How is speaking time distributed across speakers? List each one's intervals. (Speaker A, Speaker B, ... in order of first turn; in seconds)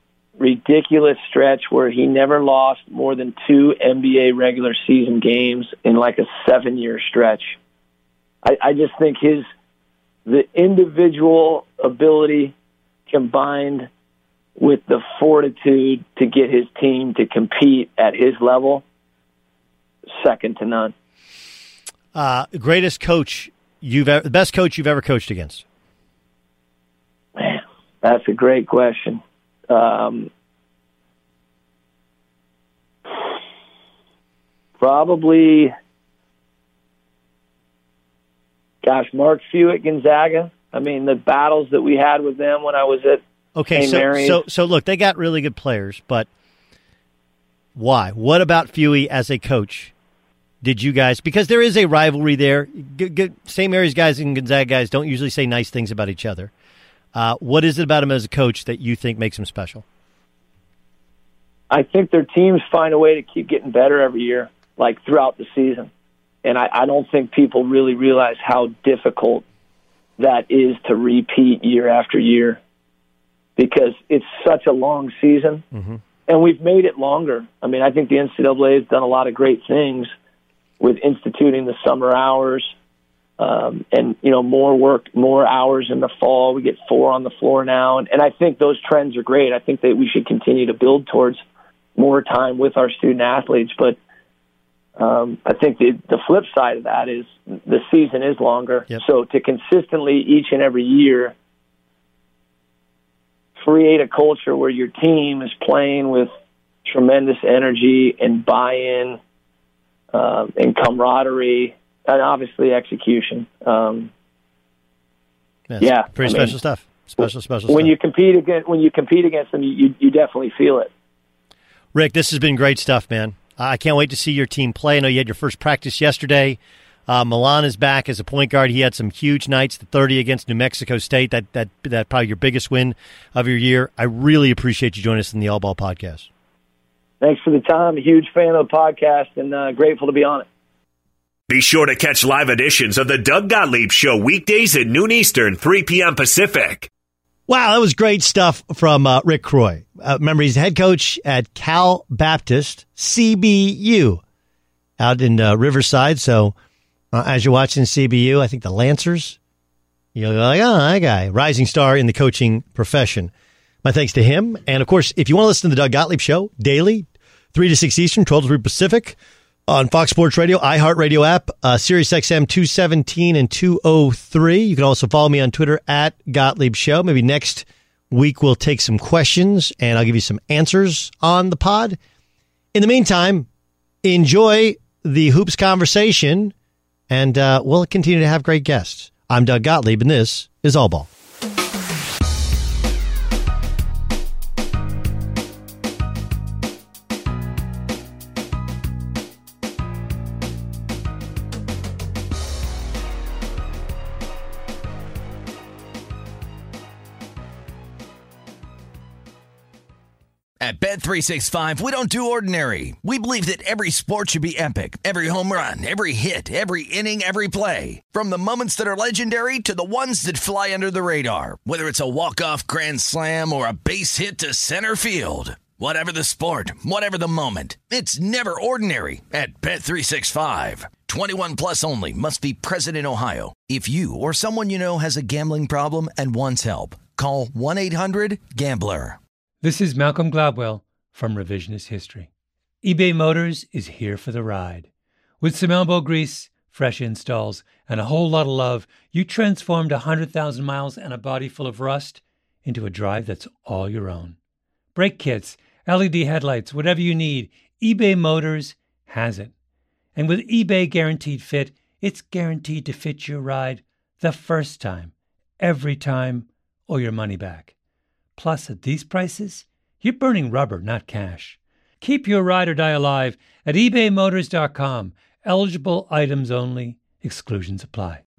Speaker A: 0.4-7.6, 8.4-9.5, 10.3-12.5, 13.1-13.9, 14.6-18.8, 20.1-20.9, 27.4-30.3, 34.8-35.7, 38.8-43.2, 43.8-44.4, 61.7-65.9, 66.4-69.4, 70.2-72.6, 73.6-75.6, 76.3-80.1, 80.8-82.7, 83.4-91.4, 92.0-94.0, 95.0-101.3, 103.6-106.3, 106.8-109.2, 110.1-114.1, 115.8-116.5, 117.7-120.9, 137.2-140.5
Speaker B: 22.1-25.6, 43.6-46.3, 47.8-49.9, 50.6-56.5, 57.1-59.8, 115.7-117.9, 121.9-136.3, 147.5-154.2, 155.0-156.6, 157.1-159.4, 160.2-163.3, 163.8-169.2, 169.7-182.0, 182.7-183.5, 184.0-186.5, 187.1-191.1
Speaker C: 141.5-146.9
Speaker D: 210.6-239.2
Speaker E: 239.6-242.3, 242.8-244.9, 245.4-254.4, 254.9-259.5, 260.1-267.7, 268.4-278.2